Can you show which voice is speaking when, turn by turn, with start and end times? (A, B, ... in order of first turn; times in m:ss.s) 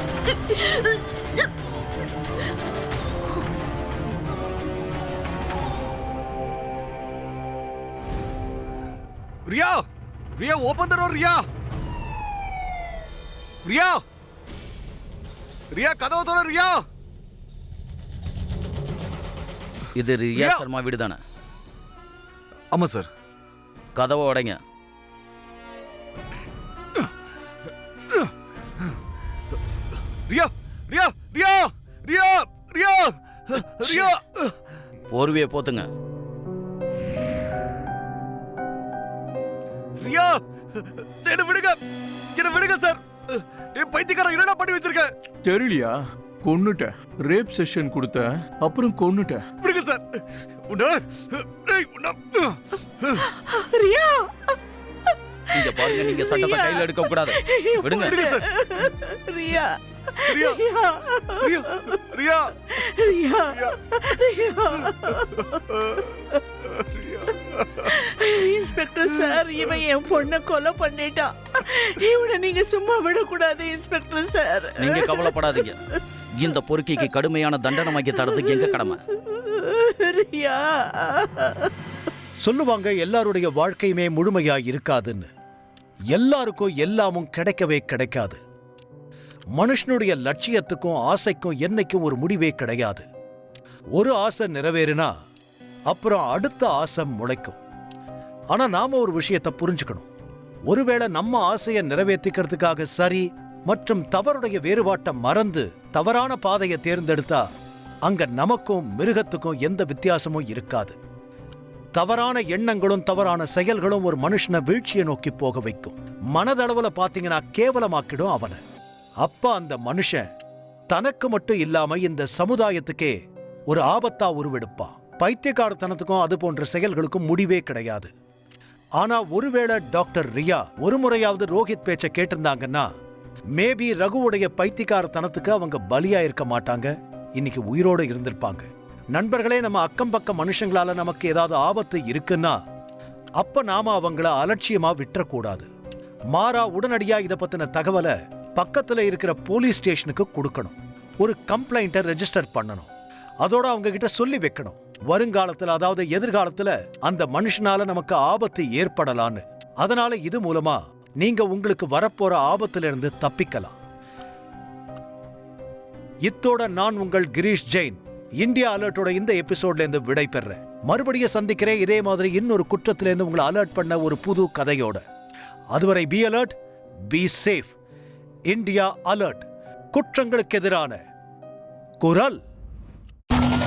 0:09.5-0:11.5 A
0:13.6-0:14.0 A
0:15.7-0:16.9 A
0:20.0-0:21.2 B
0:20.4-0:20.6 A
0:22.7-0:23.1 A
0:24.0-0:24.6 B
0:30.3-0:34.5 A
0:33.8-0:34.1 B
0:35.1-0:35.9 B
0:40.0-0:41.8 A
0:42.3-0:45.1 A
0:45.4-0:49.4 C
0:49.6-0:53.2 A
0:53.3-0:54.5 D
0:55.5-0:58.2 B
0:55.8-1:02.0 D
0:58.0-0:58.5 A
1:00.3-1:00.6 A
1:01.4-1:02.5 A
1:02.6-1:05.5 D
1:06.9-1:07.3 A
1:07.8-1:15.4 D
1:14.8-1:15.8 B
1:16.3-1:19.0 B
1:19.3-1:21.7 D
1:22.4-1:25.3 E
1:26.1-1:28.4 E
1:29.6-1:33.1 E
1:34.0-1:35.1 E
1:35.9-1:37.6 E
1:38.5-1:40.1 E
1:40.7-1:47.4 E
1:48.1-1:51.0 E
1:52.0-1:58.6 E
1:59.2-2:00.3 E
2:00.9-2:03.2 E
2:03.7-2:08.1 E
2:09.0-2:12.9 E
2:13.6-2:22.6 E
2:23.4-2:25.7 E
2:26.3-2:32.9 E
2:33.4-2:43.8 E
2:46.3-2:55.0 E
2:55.7-2:56.6 E
2:57.1-2:57.7 E
2:58.5-3:01.0 E
3:02.0-3:02.4 E